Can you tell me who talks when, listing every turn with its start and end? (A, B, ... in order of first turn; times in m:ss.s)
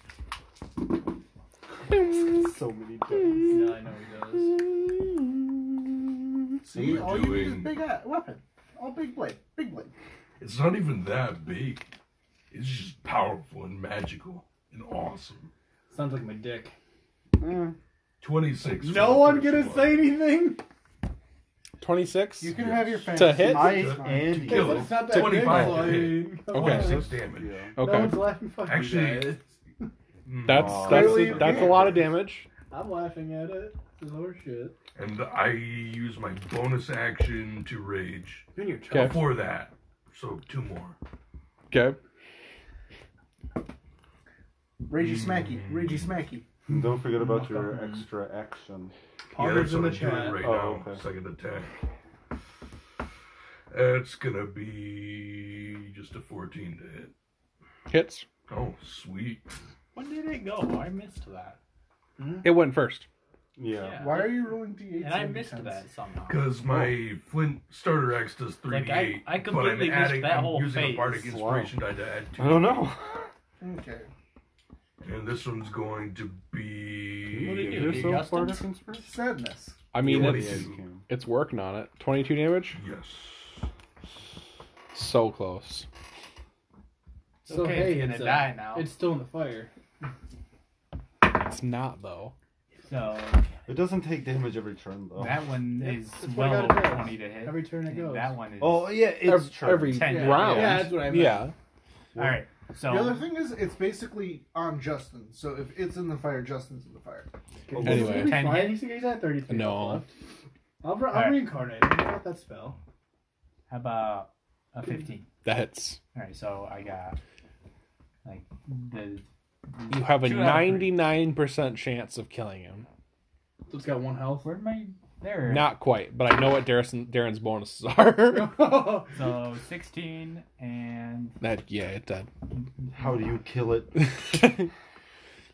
0:02.3-0:03.6 A
0:03.5-0:04.6 B
0:06.7-0:09.9 C
0:06.7-0:07.7 D
0:10.4-0:11.9 D
0:12.5-0:15.5 D
0:15.9-0:16.7 B
0:17.4-0:17.8 A
0:18.2-0:20.1 D
0:18.8-0:20.6 B
0:21.8-0:23.7 E
0:22.4-0:24.9 C
0:22.5-0:27.7 D
0:23.4-0:25.8 A
0:24.5-0:27.1 B
0:25.3-0:27.0 E
0:26.7-0:27.8 A
0:27.8-0:28.4 E
0:27.8-0:29.9 B
0:28.6-0:29.4 D
0:30.2-0:31.2 D
0:30.4-0:32.5 E
0:30.5-0:32.0 A
0:30.8-0:32.0 C
0:32.7-0:34.7 B
0:34.9-0:41.0 D
0:38.5-0:39.3 B
0:38.9-0:39.2 E
0:41.7-0:42.0 E
0:44.9-0:46.4 C
0:44.9-0:46.1 D
0:46.7-0:48.9 A
0:47.2-0:48.0 B
0:49.3-0:50.4 B
0:49.4-0:51.7 D
0:50.3-0:51.0 A
0:53.7-0:57.1 D
0:57.9-0:58.3 E
0:58.5-0:59.5 D
0:59.9-1:01.6 F
1:02.2-1:02.5 B
1:02.4-1:03.0 E
1:03.6-1:04.0 A
1:03.7-1:06.4 F
1:04.0-1:05.8 C
1:06.3-1:12.9 D
1:06.6-1:07.0 A
1:08.7-1:11.2 F
1:11.1-1:11.7 A
1:12.4-1:13.3 A
1:13.6-1:14.1 C
1:15.0-1:18.2 D
1:17.2-1:19.1 A
1:17.4-1:18.6 F
1:19.0-1:19.9 C
1:19.9-1:22.8 E
1:20.0-1:21.0 A
1:20.0-1:20.8 D
1:22.8-1:23.6 D
1:24.9-1:25.8 E
1:27.4-1:28.9 F
1:27.4-1:29.7 B
1:31.3-1:32.3 E
1:32.8-1:33.5 F
1:33.7-1:35.4 A
1:35.2-1:39.1 F
1:35.8-1:38.3 B
1:38.6-1:40.1 A
1:39.1-1:41.5 E
1:39.6-1:41.0 F
1:40.0-1:41.5 B
1:42.2-1:43.3 F
1:42.8-1:47.3 C
1:47.7-1:50.1 B
1:47.7-1:48.3 A
1:47.8-1:48.6 E
1:47.9-1:48.9 F
1:49.5-1:50.0 E
1:50.8-1:52.8 B
1:51.1-1:51.5 F
1:53.7-1:55.3 F
1:55.4-1:56.0 E
1:56.1-1:57.2 F
1:58.2-2:01.0 F
1:59.9-2:02.8 E
2:03.7-2:04.5 B
2:04.4-2:05.8 F
2:05.5-2:08.8 E
2:08.3-2:09.2 B
2:09.1-2:11.4 F
2:11.4-2:12.3 E
2:12.9-2:14.6 A
2:14.0-2:14.7 E